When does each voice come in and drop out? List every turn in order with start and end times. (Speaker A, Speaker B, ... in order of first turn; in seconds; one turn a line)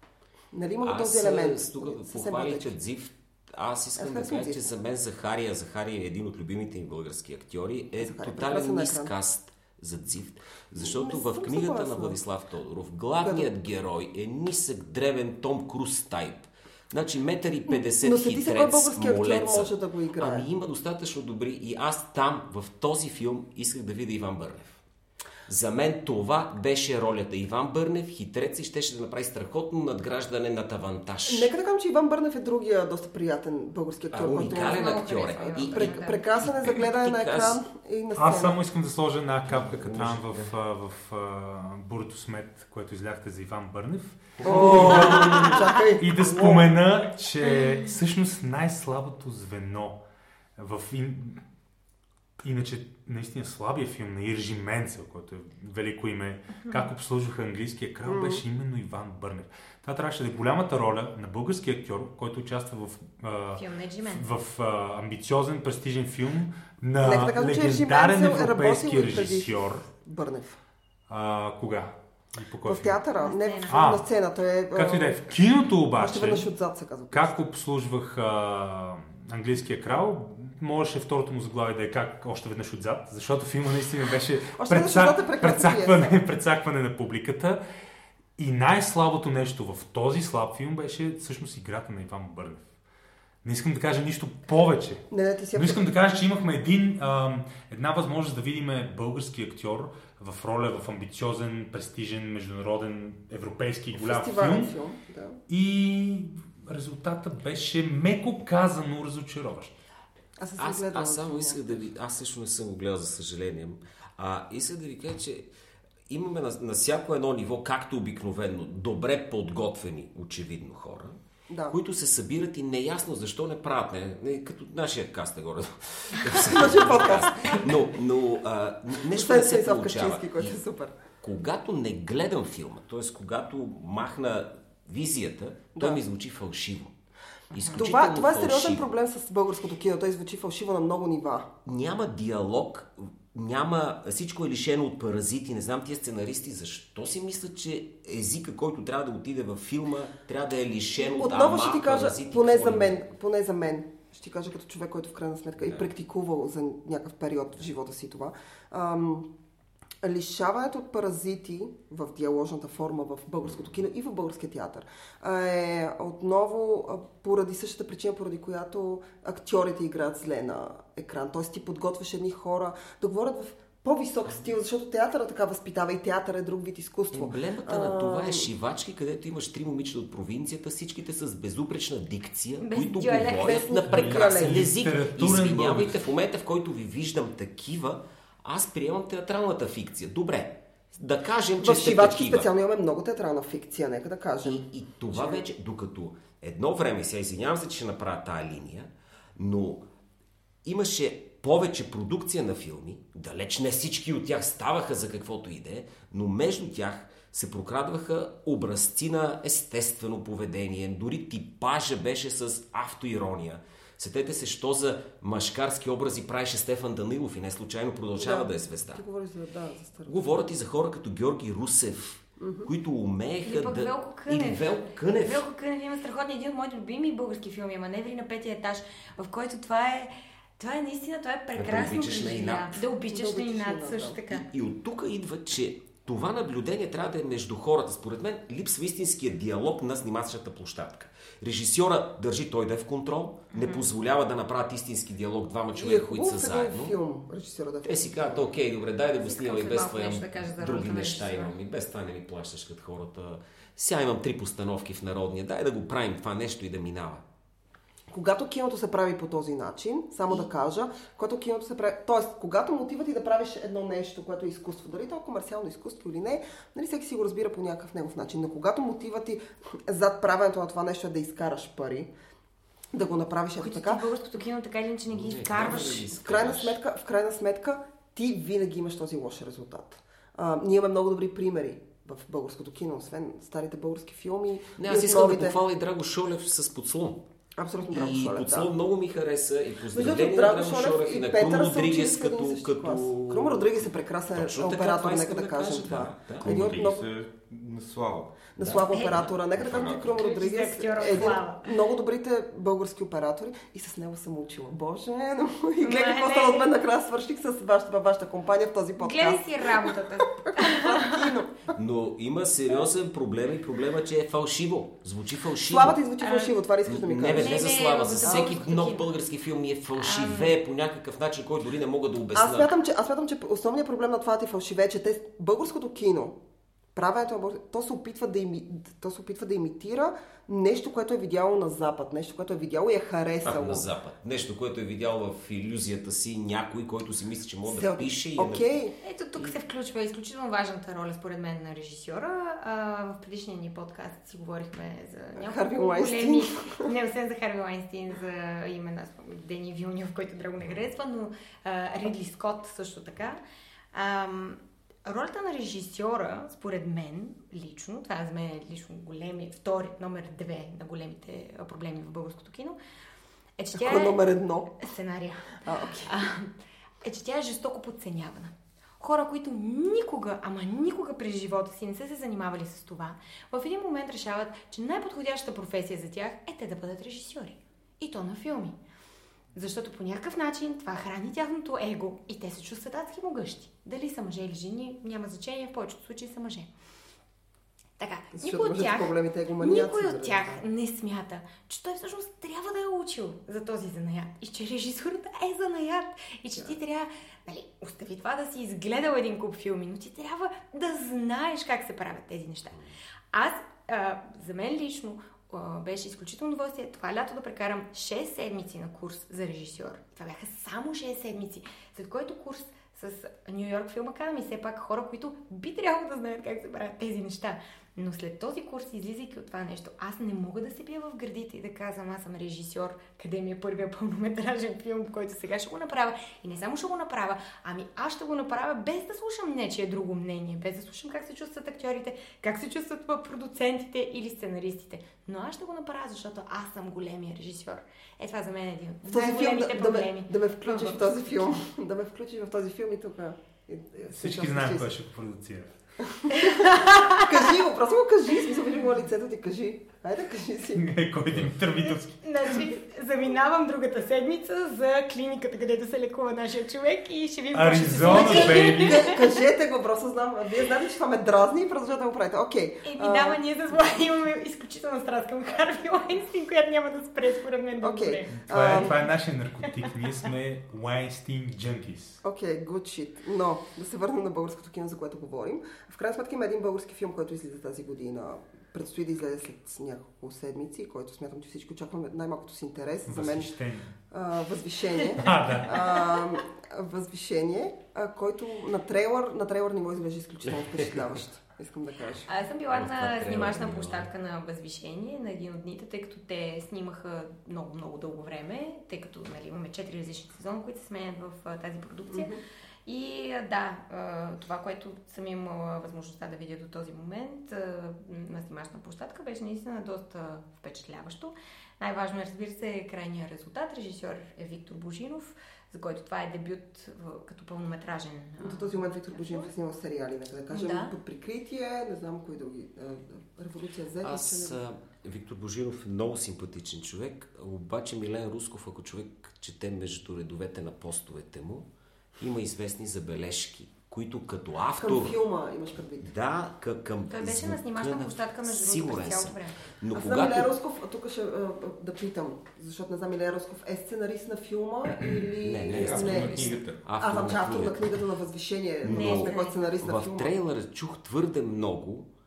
Speaker A: 0.5-2.8
Speaker B: 0.8-24.8
Speaker A: 4.0-4.7
Speaker A: 8.0-9.1
Speaker A: 10.8-12.2
Speaker A: 13.2-13.5
Speaker A: 18.0-20.5
Speaker B: 25.5-31.5
Speaker A: 31.3-38.6
Speaker B: 34.1-37.6
Speaker C: 34.5-36.2
Speaker D: 38.2-50.0
Speaker E: 39.9-40.2
Speaker A: 44.4-46.7
Speaker B: 44.5-45.3
Speaker D: 50.6-51.4
Speaker D: 52.4-69.8
Speaker A: 58.0-58.4
Speaker C: 63.5-64.3
Speaker A: 67.0-70.6
Speaker D: 71.1-73.0
Speaker A: 72.7-75.2
Speaker C: 73.1-73.8
Speaker D: 73.7-74.0
Speaker D: 74.7-76.5
Speaker A: 76.0-77.3
Speaker D: 77.1-87.6
Speaker A: 84.6-86.2
Speaker D: 88.4-92.7
Speaker D: 93.4-104.7
Speaker A: 95.1-95.9
Speaker A: 103.9-105.4
Speaker D: 105.5-109.8
Speaker A: 110.4-111.9
Speaker B: 110.6-115.5
Speaker B: 116.1-121.2
Speaker A: 121.5-121.8
Speaker B: 121.7-130.6
Speaker A: 126.3-127.8
Speaker A: 129.1-130.9
Speaker B: 131.2-136.9
Speaker A: 135.8-136.0
Speaker B: 137.5-138.9
Speaker C: 137.6-137.8
Speaker A: 137.7-141.5
Speaker B: 141.7-153.1
Speaker A: 151.1-159.3
Speaker B: 155.6-155.9
Speaker A: 160.0-178.5
Speaker B: 177.1-192.5
Speaker C: 182.6-183.7
Speaker A: 183.3-184.7
Speaker D: 183.9-186.0
Speaker A: 191.6-195.5
Speaker B: 194.4-199.8
Speaker B: 200.7-219.0
Speaker A: 218.2-220.3
Speaker B: 220.1-225.4
Speaker A: 222.4-222.7
Speaker C: 223.4-234.5
Speaker B: 231.6-232.8
Speaker A: 233.1-234.2
Speaker B: 234.3-247.0
Speaker C: 243.5-243.9
Speaker A: 245.8-248.5
Speaker B: 247.8-257.2
Speaker C: 249.2-251.6
Speaker A: 258.1-272.1
Speaker A: 272.9-274.0
Speaker C: 273.6-276.1
Speaker B: 275.1-276.8
Speaker A: 275.9-285.6
Speaker B: 284.8-287.2
Speaker A: 287.6-288.7
Speaker B: 287.9-296.5
Speaker A: 289.9-297.0
Speaker E: 296.4-300.3
Speaker A: 298.6-311.6
Speaker C: 298.9-299.2
Speaker C: 300.0-301.7
Speaker C: 305.8-306.7
Speaker C: 309.0-311.3
Speaker B: 311.7-316.0
Speaker A: 315.7-317.7
Speaker C: 316.2-316.5
Speaker B: 316.9-322.7
Speaker C: 317.3-319.1
Speaker A: 318.2-318.6
Speaker C: 320.0-320.5
Speaker A: 322.4-326.4
Speaker A: 326.9-333.9
Speaker B: 333.4-338.8
Speaker A: 337.7-338.9
Speaker C: 339.0-353.4
Speaker A: 345.4-346.9
Speaker C: 353.9-362.8
Speaker C: 363.6-364.2
Speaker A: 363.7-364.9
Speaker C: 364.8-378.8
Speaker A: 365.6-366.1
Speaker C: 379.5-386.7
Speaker C: 388.0-441.0
Speaker A: 388.4-390.6
Speaker A: 439.1-444.9
Speaker D: 444.1-445.7
Speaker A: 446.1-450.9
Speaker C: 446.3-447.4
Speaker D: 450.8-452.6
Speaker C: 452.2-459.3
Speaker D: 457.5-459.1
Speaker A: 458.1-463.8
Speaker C: 462.9-468.9
Speaker A: 467.8-468.9
Speaker D: 468.4-472.2
Speaker A: 472.2-483.5
Speaker D: 483.1-483.9
Speaker A: 484.1-492.3
Speaker D: 485.2-485.7
Speaker C: 492.3-502.3
Speaker B: 492.7-494.1
Speaker A: 502.1-502.4
Speaker C: 502.9-519.5
Speaker A: 518.4-524.6
Speaker C: 520.5-520.9
Speaker B: 524.0-535.2
Speaker A: 534.8-536.1
Speaker B: 536.0-540.5
Speaker C: 537.1-539.6
Speaker A: 539.9-546.5
Speaker B: 545.4-547.9
Speaker E: 545.7-546.9
Speaker C: 546.3-546.6
Speaker A: 547.0-550.3
Speaker B: 548.8-552.1
Speaker C: 548.9-549.6